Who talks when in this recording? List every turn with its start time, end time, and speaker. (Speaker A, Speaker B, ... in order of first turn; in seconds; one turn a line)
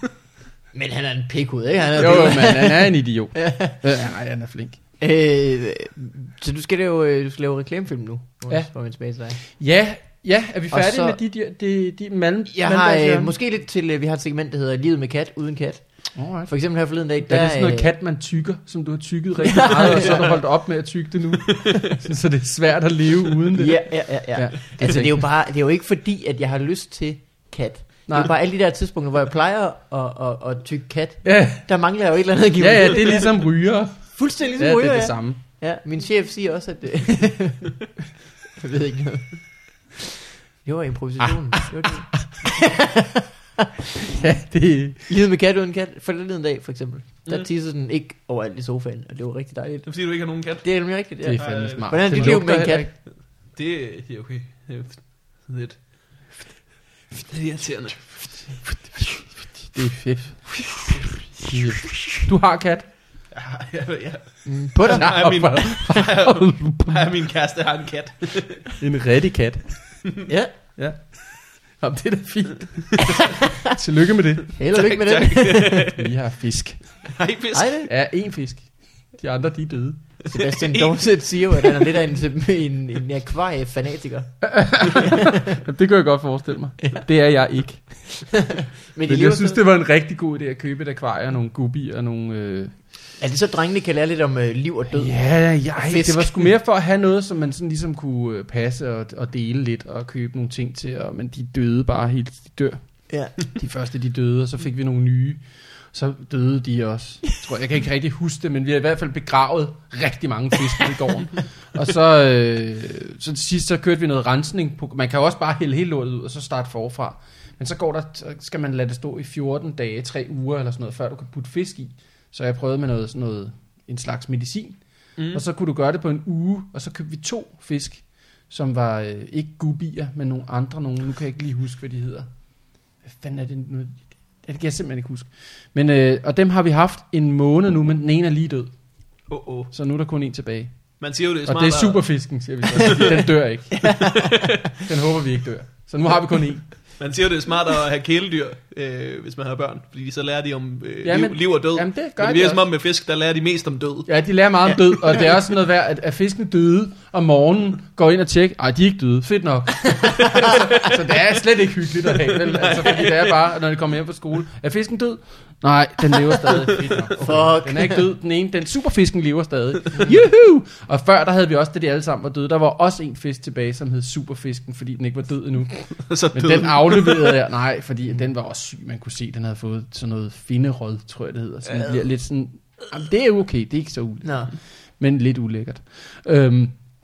Speaker A: 0.7-3.8
Speaker B: 2.0-4.8
Speaker A: 5.0-9.4
Speaker B: 9.4-13.3
Speaker A: 10.7-11.2
Speaker A: 12.5-17.9
Speaker B: 16.1-16.5
Speaker B: 17.2-25.2
Speaker A: 19.4-20.4
Speaker A: 23.5-33.3
Speaker B: 31.2-31.7
Speaker B: 32.6-35.4
Speaker A: 34.2-37.8
Speaker A: 38.5-39.4
Speaker A: 40.6-43.7
Speaker B: 41.2-42.2
Speaker B: 44.0-45.0
Speaker A: 45.1-50.0
Speaker C: 49.9-50.7
Speaker A: 50.6-52.9
Speaker B: 51.2-52.9
Speaker C: 51.3-52.4
Speaker C: 53.1-55.8
Speaker C: 57.2-58.0
Speaker B: 58.6-60.6
Speaker B: 61.4-62.9
Speaker C: 63.3-68.7
Speaker A: 64.5-65.2
Speaker B: 64.9-67.0
Speaker B: 68.8-70.0
Speaker A: 70.3-70.5
Speaker B: 70.8-74.5
Speaker A: 74.6-75.9
Speaker C: 74.7-76.0
Speaker B: 75.9-77.0
Speaker C: 77.2-77.7
Speaker A: 77.5-77.9
Speaker B: 77.9-80.0
Speaker A: 80.3-85.6
Speaker C: 80.3-81.0
Speaker B: 84.4-88.3
Speaker A: 88.3-89.6
Speaker B: 89.1-92.7
Speaker A: 93.2-96.5
Speaker B: 94.9-102.8
Speaker A: 103.1-103.3
Speaker B: 103.4-105.4
Speaker B: 105.9-124.8
Speaker C: 125.2-125.4
Speaker B: 125.3-132.3
Speaker B: 133.0-138.7
Speaker C: 139.3-139.7
Speaker B: 139.7-140.7
Speaker C: 141.0-142.1
Speaker B: 141.4-144.2
Speaker C: 142.8-143.1
Speaker A: 143.8-144.3
Speaker C: 143.9-144.7
Speaker B: 144.8-146.7
Speaker C: 147.0-154.1
Speaker B: 151.0-152.6
Speaker B: 154.1-186.8
Speaker A: 160.0-160.6
Speaker A: 167.2-168.1
Speaker C: 176.1-177.4
Speaker A: 181.7-182.0
Speaker A: 184.2-184.5